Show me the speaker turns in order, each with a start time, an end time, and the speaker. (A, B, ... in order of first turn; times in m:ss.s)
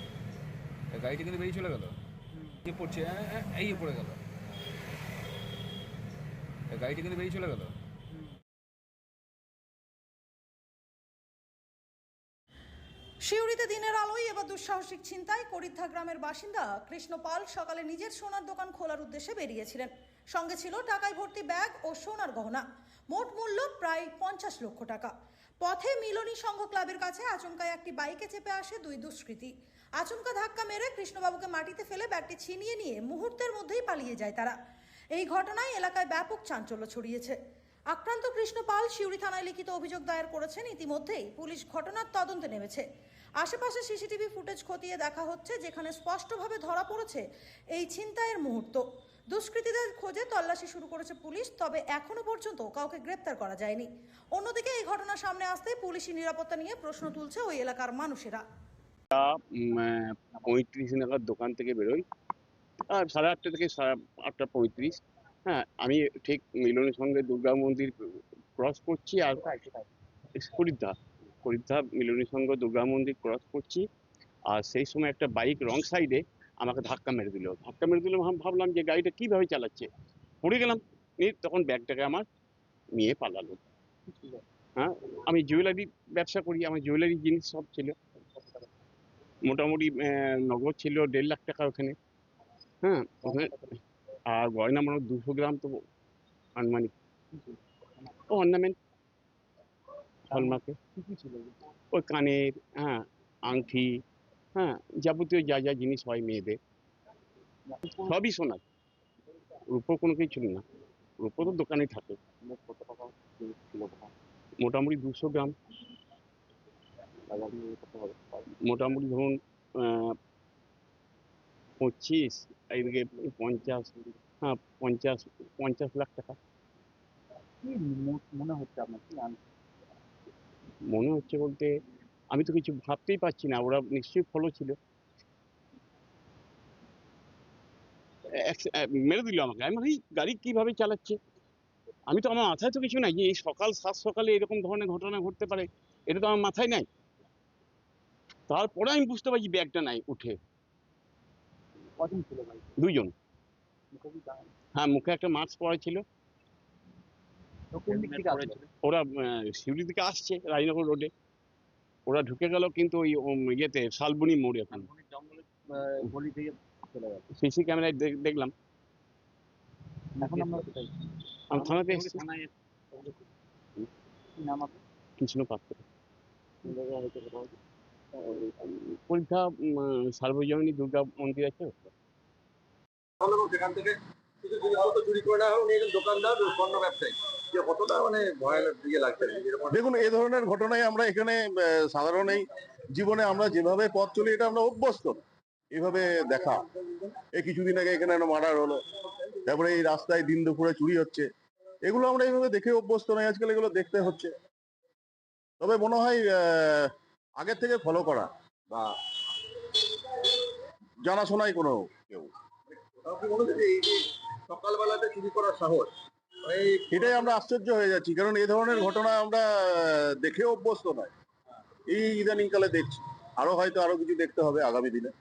0:00.9-0:02.0 A
0:02.3-0:02.6 B
0:02.6-0:04.2 A
0:06.7-0:07.7 A
0:13.2-0:25.1 C
0:25.6-0:34.5 C
0:35.1-0:37.4 C
0:37.9-0:42.8 C
0:43.4-0:58.4 C
0:59.1-1:02.0 D
1:02.9-1:07.9 D
1:08.6-1:09.5 D
1:09.4-1:09.9 B
1:10.4-1:13.8 D
1:14.5-1:19.9 D
1:20.4-1:22.2 D
1:23.0-1:23.6 D
1:24.1-1:24.4 B
1:24.8-1:27.9 D
1:28.3-1:28.7 B
1:29.4-1:31.9 D
1:32.8-1:33.6 D
1:33.2-1:33.7 B
1:34.3-1:35.7 D
1:36.6-1:36.9 D
1:37.3-1:38.1 B
1:38.3-1:38.8 D
1:40.3-1:41.6 B
1:40.3-1:40.7 D
1:41.9-1:43.9 D
1:44.5-1:46.6 D
1:47.7-1:48.1 B
1:47.9-1:48.6 D
1:49.7-1:50.6 D
1:51.2-1:52.2 D
1:52.4-1:54.1 B
1:54.6-1:55.5 D
1:57.3-1:58.5 B
1:58.6-2:00.1 D
2:01.8-2:03.9 D
2:03.0-2:04.1 B
2:04.4-2:06.4 D
2:07.6-2:09.4 B
2:10.9-2:11.7 D
2:12.3-2:14.8 D
2:18.4-2:21.2 D
2:22.1-2:26.8 D
2:28.5-2:30.4 D
2:32.0-2:32.7 B
2:32.8-2:33.1 D
2:33.9-2:34.5 B
2:34.8-2:36.0 D
2:37.7-2:38.6 B
2:37.9-2:41.1 D
2:42.1-2:44.9 D
2:44.7-2:47.2 B
2:47.4-2:48.5 D
2:50.1-2:52.3 B
2:50.2-2:50.7 D
2:51.5-2:52.3 D
2:54.4-2:54.8 B
2:55.2-2:55.8 D
2:56.6-2:57.5 B
2:58.4-3:01.9 D
3:03.2-3:09.9 E
3:09.7-3:18.8 F
3:19.4-3:21.3 F
3:21.8-3:24.3 F
3:25.6-3:29.0 F
3:31.0-3:32.3 F
3:32.7-3:35.9 E
3:36.4-3:37.3 E
3:36.9-3:41.1 F
3:41.9-3:45.1 F